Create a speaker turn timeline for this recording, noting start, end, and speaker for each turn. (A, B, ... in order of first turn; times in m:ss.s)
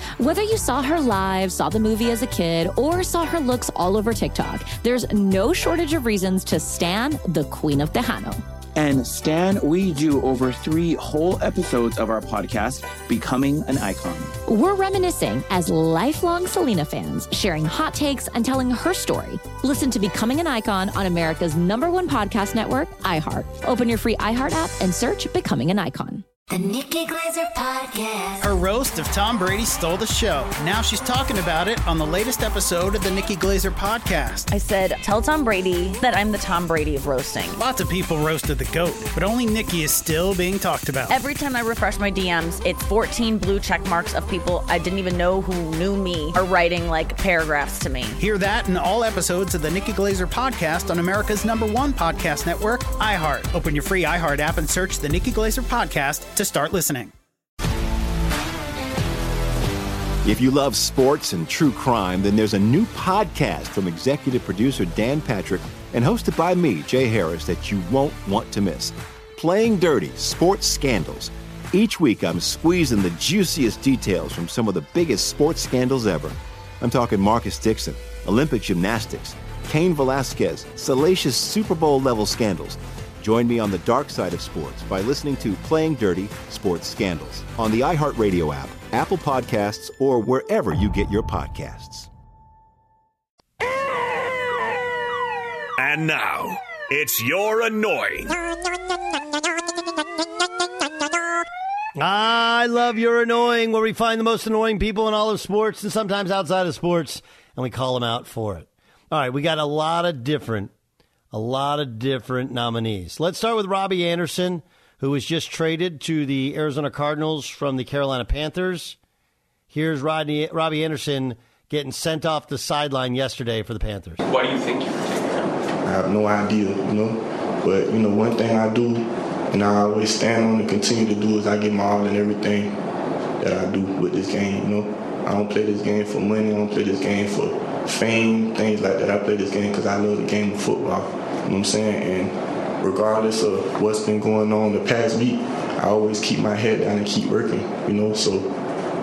0:00.2-0:08.4 A
0:08.8-0:14.3 B
0:14.5-0:26.2 A
0:26.5-0:28.6 C
0:28.4-0:34.5 D
0:34.5-0:37.6 E
0:37.6-0:41.2 D
0:41.1-0:48.2 E
0:48.2-0:57.1 D
1:00.2-1:32.1 F
1:35.8-1:38.4 G
1:42.0-1:50.7 H
1:51.3-1:59.0 H
1:59.7-2:04.2 H
2:05.8-2:12.8 I
2:13.4-2:28.5 I